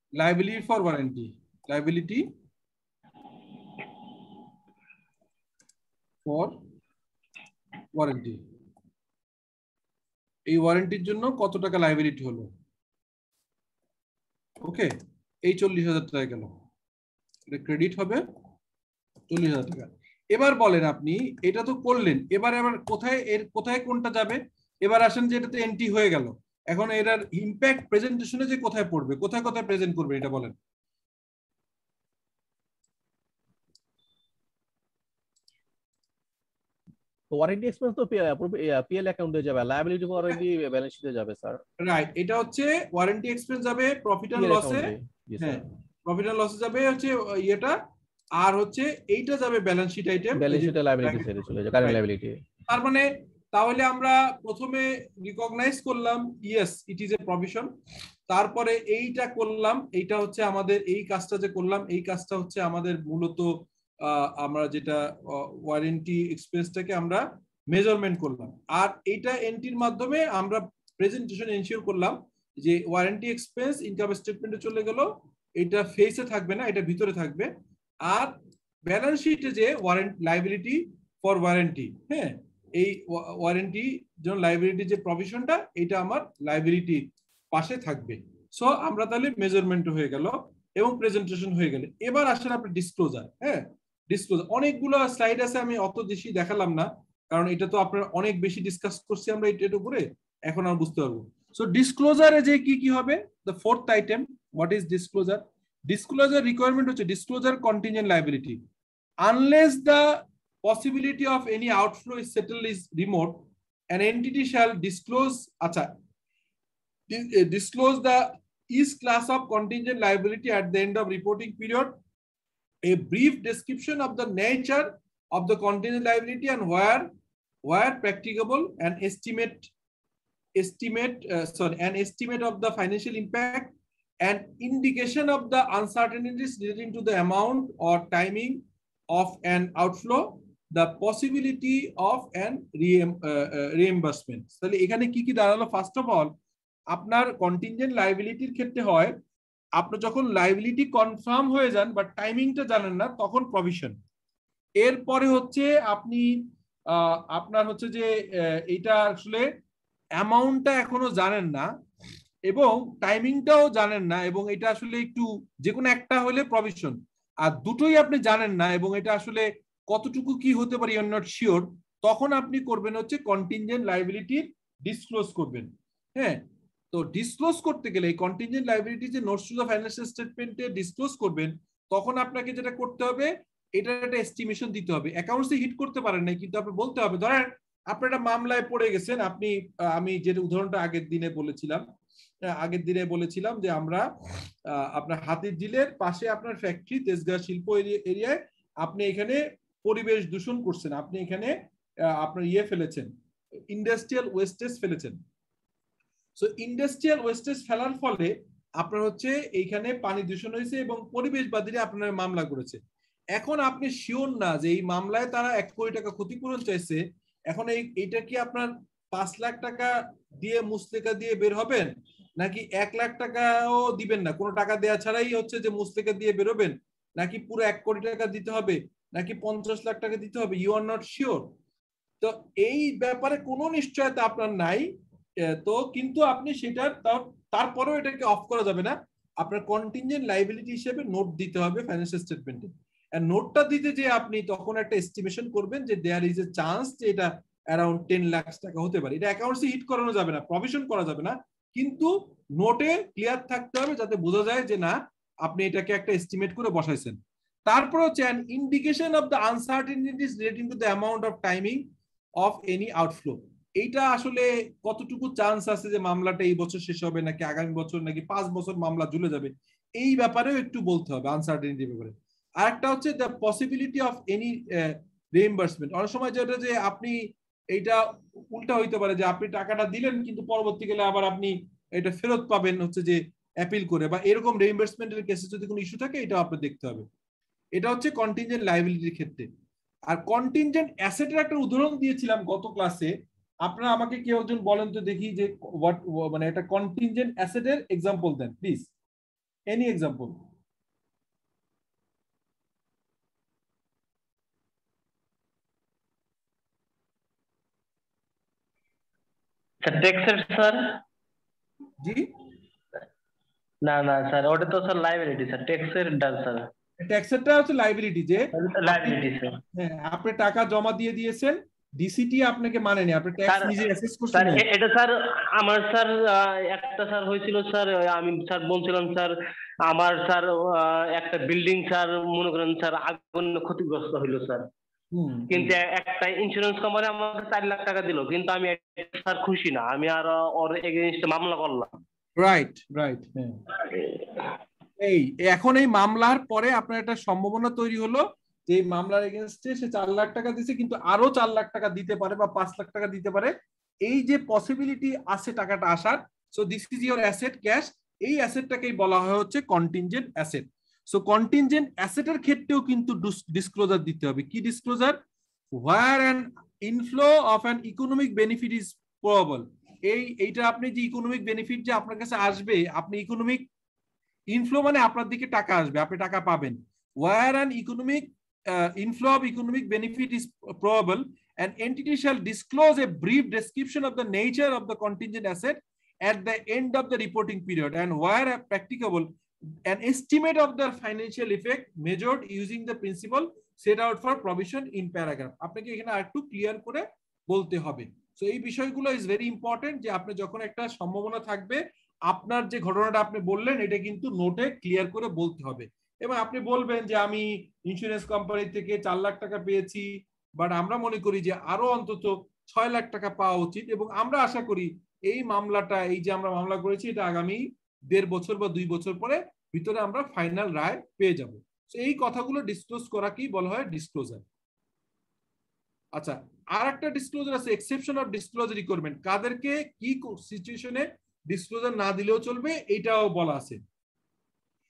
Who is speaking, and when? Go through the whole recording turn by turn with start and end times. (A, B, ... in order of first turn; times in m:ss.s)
0:00.2-0:02.3 A
0:06.2-0:06.6 A
0:07.9-0:08.4 A
0:10.5-0:12.5 A
0:14.6-0:14.9 A
0:15.4-0:16.5 A
0:17.5-0:18.2 A
0:19.3-0:30.5 A
0:37.3-0:41.6 B
0:41.8-0:47.7 A
0:44.3-0:45.6 B
0:48.4-0:52.0 A
0:50.3-0:52.4 B
0:52.7-0:57.7 A
0:58.3-1:03.5 A
1:04.0-1:17.5 A
1:18.0-1:18.3 A
1:18.8-1:48.6 A
1:49.2-1:50.1 A
1:50.6-1:55.9 A
1:57.1-2:01.9 A
2:02.8-2:07.1 A
2:07.6-2:09.7 A
2:10.6-2:18.6 A
2:19.1-2:26.3 A
2:26.9-2:29.1 A
2:29.8-2:33.9 A
2:34.8-2:36.3 A
2:36.9-2:38.1 A
2:38.7-2:39.4 A
2:40.2-2:41.7 A
2:42.5-3:11.8 A
3:12.6-3:14.0 A
3:14.7-3:21.5 A
3:22.2-3:23.1 A
3:23.7-3:25.2 A
3:26.4-3:32.8 A
3:33.3-3:37.0 A
3:37.5-3:39.9 A
3:40.4-3:51.5 A
3:52.2-3:54.9 A
3:55.5-4:21.8 A
4:22.4-4:37.2 A
4:37.7-4:47.0 A
4:47.8-4:49.5 A
4:50.1-4:53.1 A
4:53.6-4:58.9 A
4:59.7-5:00.4 A
5:09.8-5:11.0 C
5:12.0-5:12.3 A
5:13.8-5:16.6 C
5:17.0-5:19.2 A
5:18.5-5:19.6 C
5:19.7-5:24.6 A
5:23.5-5:23.8 C
5:24.3-5:29.3 C
5:29.8-5:34.6 C
5:35.1-5:35.8 A
5:35.5-5:42.0 C
5:42.4-5:43.6 A
5:43.8-5:44.5 C
5:45.0-5:53.5 A
5:54.0-6:05.2 A
6:05.7-6:13.6 A
6:14.5-6:29.3 A
6:29.8-7:04.4 A
7:06.2-7:13.8 A